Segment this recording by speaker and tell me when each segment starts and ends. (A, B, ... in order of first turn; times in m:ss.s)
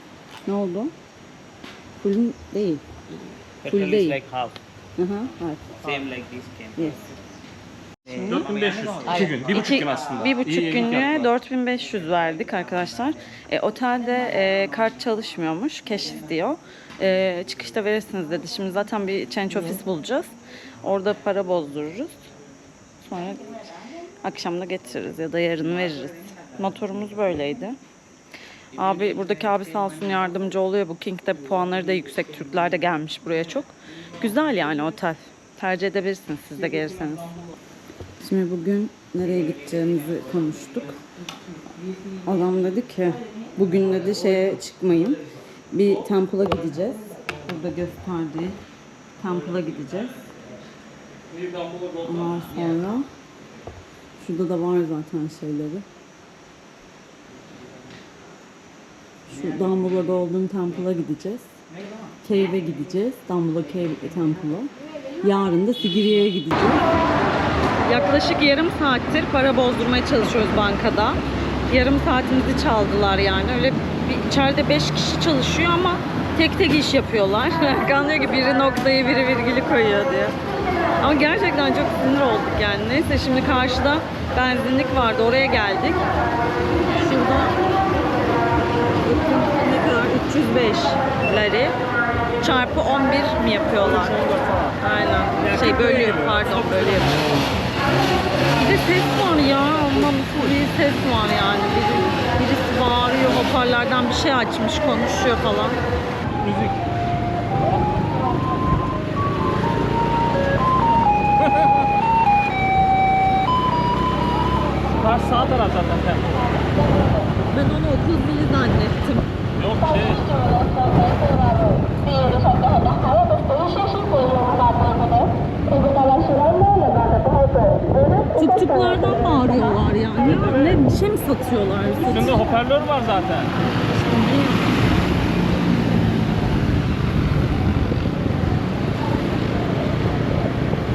0:00.5-0:00.9 A
0:02.0-0:02.8 A
0:03.6-0:04.6 B
0:03.7-0:04.2 A
0:05.0-0:05.8 A
0:05.8-0:07.1 B
0:08.1-0:10.2 B
0:08.1-0:08.5 A
0:08.2-0:11.3 C
0:09.5-0:22.3 A
0:23.0-0:23.7 A
0:24.2-0:27.8 A
0:28.8-0:37.3 A
0:38.2-0:41.0 A
0:42.2-0:48.6 A
0:49.2-0:50.2 A
0:51.3-0:52.5 C
0:52.0-0:53.1 A
0:54.2-0:55.8 A
0:59.3-1:01.5 A
1:02.2-1:06.9 A
1:07.8-1:20.4 A
1:21.0-1:26.1 A
1:26.9-1:27.6 A
1:29.0-1:31.8 A
1:32.4-1:34.2 A
1:33.8-1:34.8 C
1:34.8-1:37.2 A
1:35.4-1:37.5 C
1:38.6-1:45.8 A
1:46.3-1:46.8 C
1:51.4-1:51.7 C
1:55.0-1:56.5 C
1:57.5-1:59.3 A
1:59.6-2:00.4 C
2:03.8-2:05.1 A
2:08.3-2:12.5 A
2:10.2-2:10.8 C
2:12.1-2:13.5 C
2:13.6-2:14.8 A